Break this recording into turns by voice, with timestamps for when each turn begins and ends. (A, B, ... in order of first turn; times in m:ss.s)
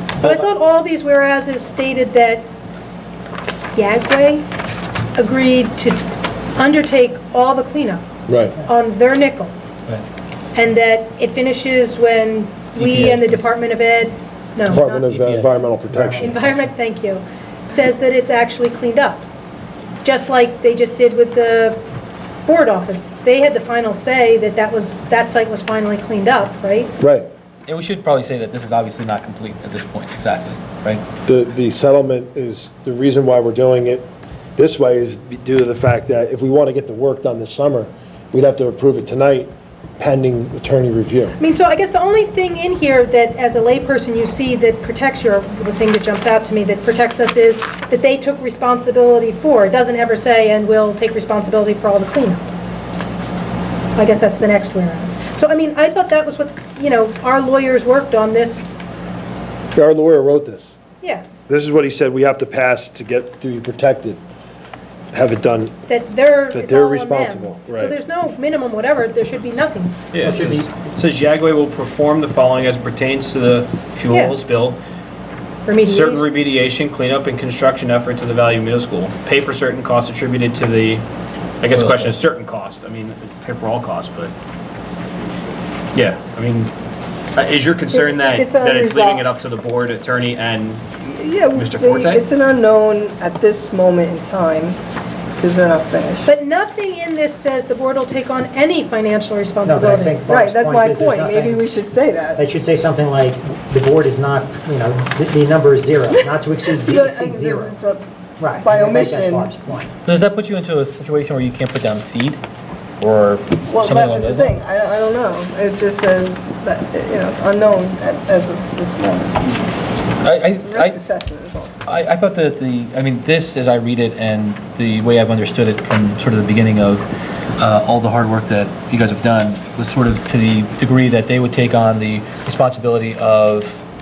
0:00.2-0:02.5 A
0:03.7-0:04.5 A
0:05.2-0:08.0 A
0:08.3-0:08.6 B
0:08.6-0:09.5 A
0:10.5-0:15.2 A
0:12.8-0:13.4 C
0:14.7-0:16.4 B
0:15.0-0:15.5 C
0:15.9-0:16.6 D
0:16.2-0:19.2 A
0:20.0-0:21.8 A
0:22.5-0:26.9 A
0:27.0-0:27.3 B
0:27.7-0:31.0 C
0:31.3-0:41.3 B
0:41.4-0:52.4 A
0:54.0-0:58.7 A
0:59.7-1:00.8 B
1:01.0-1:01.3 A
1:01.5-1:04.2 B
1:05.1-1:05.8 B
1:05.9-1:10.0 A
1:06.5-1:07.9 B
1:10.1-1:14.8 E
1:10.5-1:10.8 D
1:14.1-1:14.4 A
1:15.7-1:16.3 A
1:15.8-1:21.0 E
1:21.6-1:24.3 E
1:21.7-1:22.1 C
1:25.9-1:26.7 E
1:27.4-1:30.8 E
1:27.9-1:29.3 F
1:31.0-1:34.8 F
1:31.5-1:32.3 E
1:35.4-1:36.3 F
1:36.3-1:40.2 A
1:39.6-1:41.7 D
1:40.3-1:42.4 F
1:42.4-1:47.8 D
1:46.1-1:49.5 F
1:48.4-1:49.9 D
1:50.0-1:52.4 C
1:53.0-1:54.6 C
1:53.7-1:59.7 F
2:00.2-2:01.0 C
2:00.6-2:01.7 F
2:01.9-2:07.1 C
2:07.6-2:13.8 C